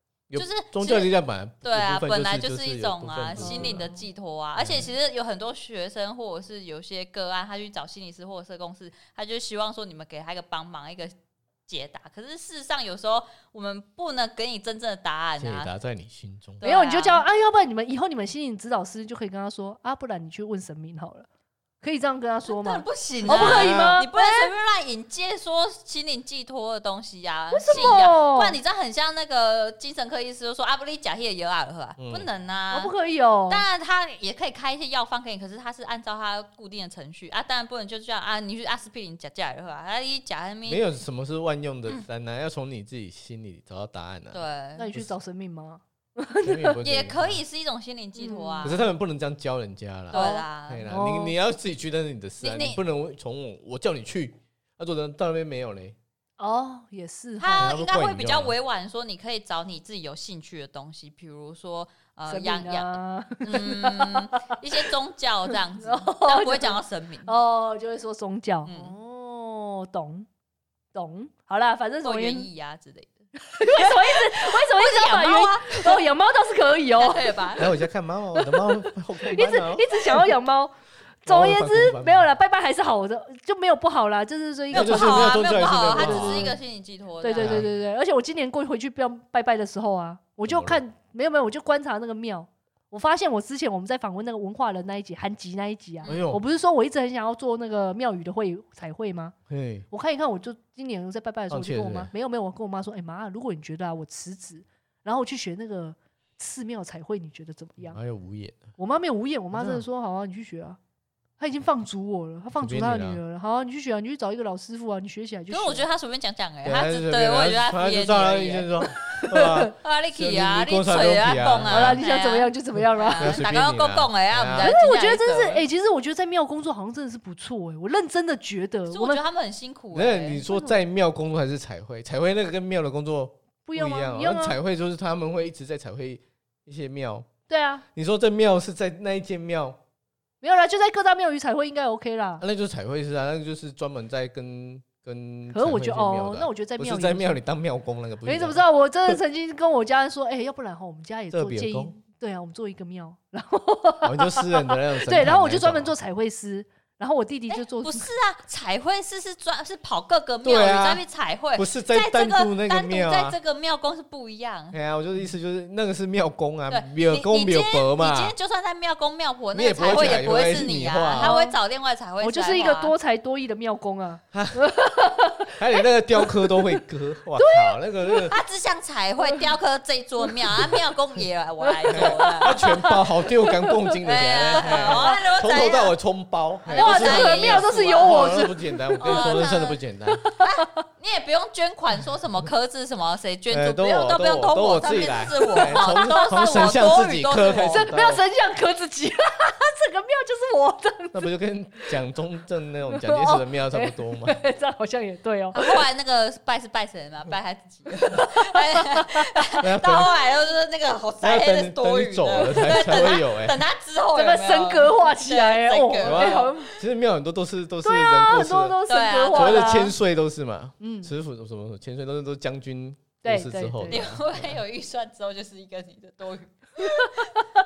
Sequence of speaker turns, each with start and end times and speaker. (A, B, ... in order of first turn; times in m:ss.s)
0:00.3-0:03.9 A
0:00.3-0:01.1 B
0:01.6-0:11.1 B
0:03.4-0:04.0 C
0:04.6-0:04.9 A
0:11.7-0:15.7 B
0:15.4-0:16.6 A
0:16.6-0:17.2 B
0:16.6-0:21.3 C
0:21.8-0:24.5 C
0:22.4-0:32.9 B
0:23.2-0:24.0 A
0:27.5-0:28.6 C
0:32.0-0:32.3 A
0:32.7-0:33.6 C
0:33.5-0:40.8 B
0:40.6-0:44.4 A
0:44.3-0:44.8 B
0:44.8-0:46.8 C
0:46.4-0:47.4 A
0:46.8-0:48.8 B
0:48.2-0:48.8 C
0:48.6-0:56.0 A
0:50.1-0:50.8 B
0:50.1-0:51.3 C
0:52.4-0:52.8 B
0:56.4-0:57.8 C
0:57.4-1:07.3 B
0:57.6-0:58.5 A
1:02.3-1:04.6 C
1:05.5-1:10.3 C
1:08.6-1:08.9 B
1:10.9-1:12.4 C
1:12.0-1:16.0 B
1:13.5-1:17.6 C
1:17.0-1:17.7 B
1:17.6-1:20.4 A
1:18.3-1:26.5 C
1:21.2-1:22.3 A
1:24.7-1:27.6 B
1:24.7-1:26.6 A
1:27.2-1:39.3 C
1:27.4-1:27.7 A
1:30.5-1:30.8 A
1:36.1-1:36.4 A
1:39.5-1:39.8 A
1:39.9-1:48.0 C
1:41.5-1:42.1 A
1:47.8-1:48.7 A
1:48.8-1:50.8 C
1:49.5-1:49.8 A
1:51.4-1:55.8 C
1:52.5-1:53.2 A
1:55.5-1:58.7 B
1:56.6-2:02.0 A
1:59.0-1:59.7 C
1:59.8-2:05.6 B
2:01.6-2:03.4 C
2:03.2-2:04.7 A
2:04.6-2:09.2 C
2:08.9-2:10.4 B
2:09.9-2:17.3 A
2:10.4-2:10.8 C
2:13.6-2:14.6 C
2:17.5-2:17.8 C
2:17.9-2:19.8 A
2:20.4-2:22.4 C
2:22.4-2:29.2 A
2:25.5-2:27.4 C
2:28.2-2:38.1 C
2:31.3-2:32.0 A
2:34.0-2:35.9 A
2:37.5-2:44.8 B
2:40.4-2:41.0 A
2:41.5-2:43.4 A
2:44.7-2:48.3 A
2:46.7-2:52.9 B
2:49.5-2:51.4 A
2:49.8-2:50.1 C
2:51.2-2:51.6 C
2:52.2-2:56.8 C
2:54.3-2:54.6 A
2:55.5-2:58.4 A
2:57.4-2:58.3 C
2:58.3-3:02.8 B
3:01.6-3:05.2 C
3:01.9-3:10.3 A
3:04.0-3:05.9 B
3:06.7-3:08.4 B
3:06.7-3:10.7 C
3:09.0-3:09.8 B
3:10.4-3:17.9 B
3:13.5-3:18.2 A
3:15.5-3:16.7 C
3:17.6-3:21.9 C
3:21.1-3:24.4 A
3:22.9-3:25.8 C
3:25.5-3:36.7 B
3:28.4-3:29.3 C
3:29.6-3:30.1 A
3:31.2-3:33.6 A
3:32.4-3:32.7 C
3:34.2-3:36.7 C
3:36.0-3:38.8 A
3:37.8-3:39.9 C
3:38.9-3:39.8 B
3:39.3-3:44.6 A
3:40.8-3:41.1 C
3:43.2-3:44.1 C
3:43.9-3:47.4 B